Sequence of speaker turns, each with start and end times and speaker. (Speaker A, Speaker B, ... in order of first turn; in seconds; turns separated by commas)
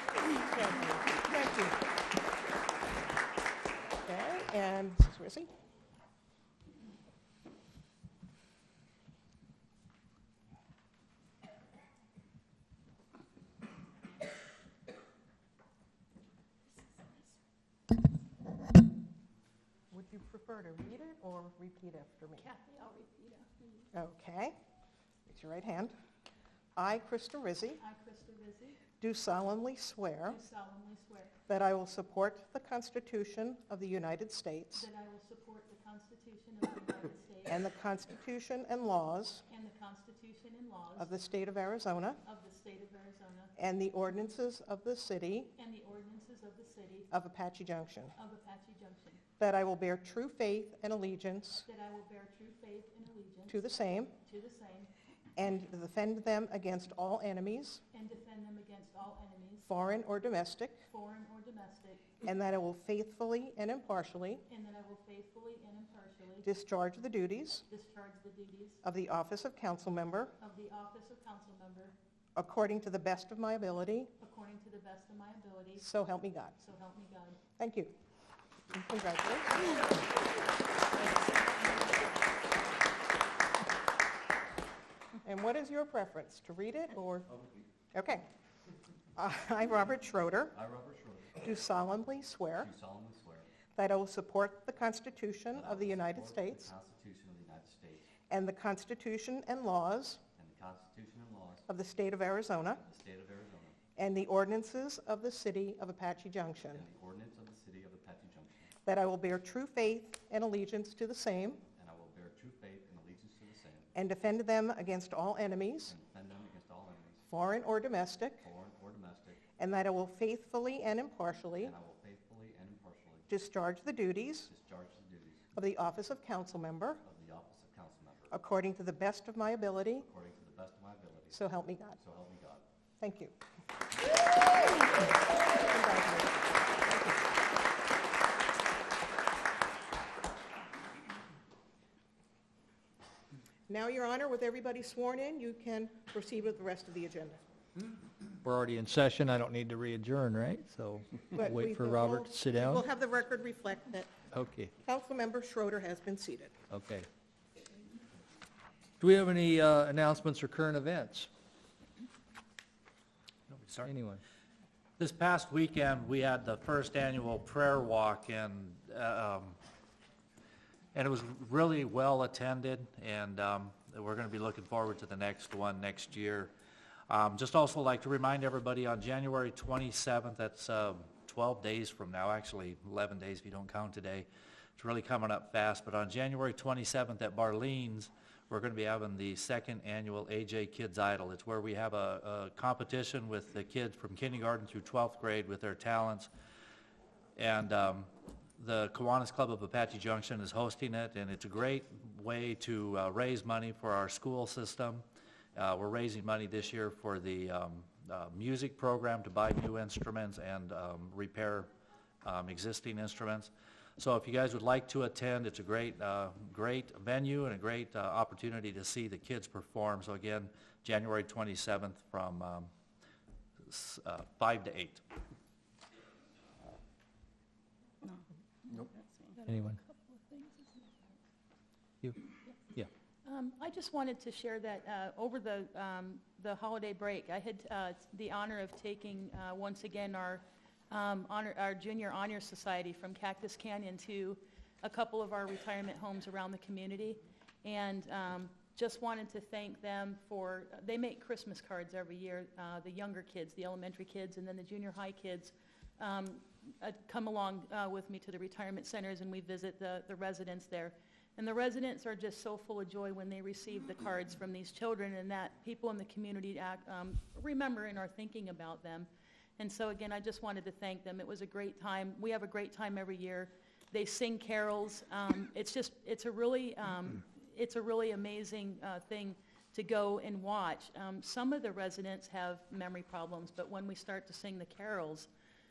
Speaker A: 0.3-1.8, Speaker A: 4.0-5.5, Speaker A: 19.9-22.5, Speaker B: 22.4-23.9, Speaker A: 23.9-24.6, Speaker A: 25.3-25.9, Speaker A: 26.8-27.8, Speaker B: 27.8-28.8, Speaker A: 29.0-30.4, Speaker B: 30.3-31.3, Speaker A: 31.5-34.9, Speaker B: 34.8-37.6, Speaker A: 37.5-39.4, Speaker B: 39.5-41.1, Speaker A: 41.0-42.2, Speaker B: 42.2-43.5, Speaker A: 43.6-45.5, Speaker B: 45.6-47.1, Speaker A: 47.1-48.1, Speaker B: 48.2-49.2, Speaker A: 49.4-51.7, Speaker B: 51.7-53.6, Speaker A: 53.5-54.1, Speaker B: 54.2-54.9, Speaker A: 55.4-57.8, Speaker B: 57.9-59.7, Speaker A: 59.7-60.8, Speaker B: 60.9-62.1, Speaker A: 62.2-64.4, Speaker B: 64.5-66.5, Speaker A: 66.4-67.6, Speaker B: 67.7-68.8, Speaker A: 68.8-70.3, Speaker B: 70.4-72.0, Speaker A: 72.4-74.1, Speaker B: 74.2-75.8, Speaker A: 75.8-76.6, Speaker B: 76.6-77.4, Speaker A: 77.6-77.9, Speaker A: 78.7-79.8, Speaker A: 85.2-87.3, Speaker A: 87.9-88.3, Speaker A: 89.2-90.6, Speaker C: 90.5-91.5, Speaker A: 91.4-92.7, Speaker C: 92.6-93.5, Speaker A: 93.8-96.7, Speaker C: 95.5-98.1, Speaker A: 98.3-100.2, Speaker C: 100.4-101.7, Speaker A: 101.7-102.8, Speaker C: 102.8-103.8, Speaker A: 104.0-106.8, Speaker C: 106.7-108.7, Speaker A: 108.8-111.6, Speaker C: 111.7-113.9, Speaker A: 114.0-116.0, Speaker C: 115.9-117.2, Speaker A: 117.3-118.5, Speaker C: 118.4-119.5, Speaker A: 119.6-121.8, Speaker C: 121.6-123.3, Speaker A: 123.3-124.5, Speaker C: 124.5-125.5, Speaker A: 125.5-127.0, Speaker C: 127.0-128.4, Speaker A: 128.3-130.1, Speaker C: 130.0-131.4, Speaker A: 131.3-132.0, Speaker C: 132.0-132.7, Speaker A: 133.0-133.3, Speaker A: 135.5-137.2, Speaker A: 143.7-147.4, Speaker D: 148.4-152.8, Speaker A: 151.3-154.1, Speaker D: 154.3-154.7, Speaker A: 154.8-156.6, Speaker D: 156.7-157.1, Speaker D: 159.0-161.3, Speaker E: 163.5-163.9, Speaker D: 163.7-164.2, Speaker E: 165.0-169.6, Speaker E: 170.9-176.5, Speaker E: 177.1-196.3, Speaker E: 197.4-205.0, Speaker E: 205.6-211.7, Speaker E: 212.2-222.7, Speaker E: 223.7-225.0, Speaker B: 229.3-231.2, Speaker D: 229.5-229.8, Speaker B: 233.2-285.3